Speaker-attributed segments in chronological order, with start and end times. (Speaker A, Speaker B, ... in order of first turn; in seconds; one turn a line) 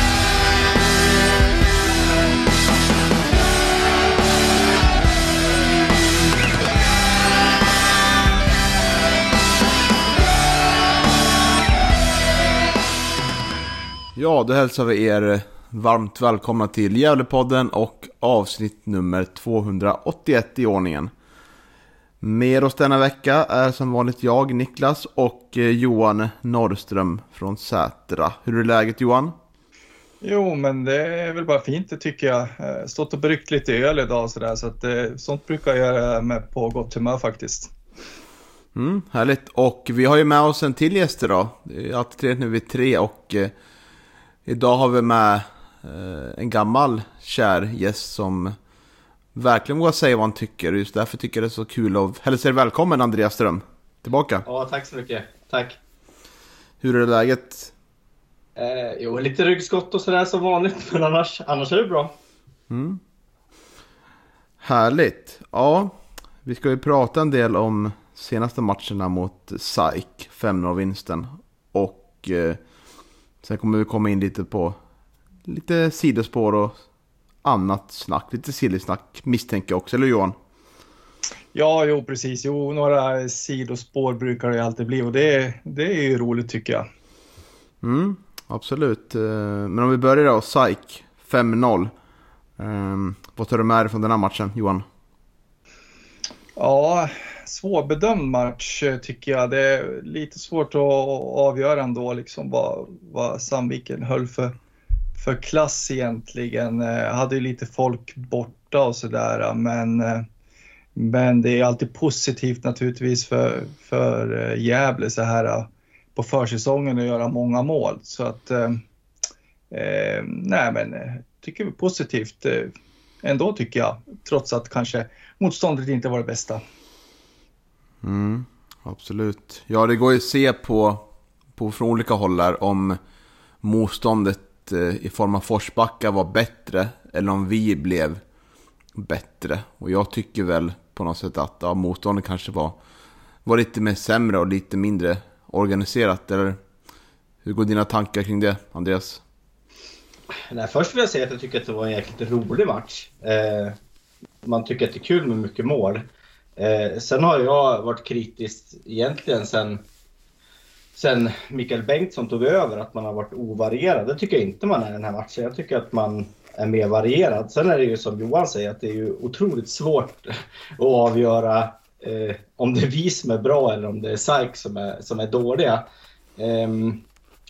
Speaker A: 14.2-21.1
Speaker A: 22.2-29.4
Speaker B: 30.2-37.7
Speaker A: 38.8-43.5
Speaker A: 44.5-48.6
Speaker A: 49.4-54.5
Speaker C: 54.5-55.8
Speaker A: 56.8-57.7
Speaker C: 58.6-62.2
Speaker A: 62.7-63.0
Speaker A: 64.6-72.6
Speaker A: 73.4-74.8
Speaker A: 75.5-76.8
Speaker A: 77.4-80.3
Speaker B: 81.5-86.9
Speaker A: 87.8-91.9
Speaker A: 92.6-94.8
Speaker B: 96.6-104.5
Speaker B: 105.2-110.3
Speaker B: 111.0-118.8
Speaker B: 119.7-126.6
Speaker A: 128.0-133.0
Speaker A: 133.6-138.2
Speaker A: 138.9-142.8
Speaker A: 143.4-146.6
Speaker A: 147.4-149.2
Speaker C: 150.5-153.8
Speaker C: 154.4-156.1
Speaker C: 156.6-159.8
Speaker C: 160.9-175.8
Speaker C: 176.4-177.0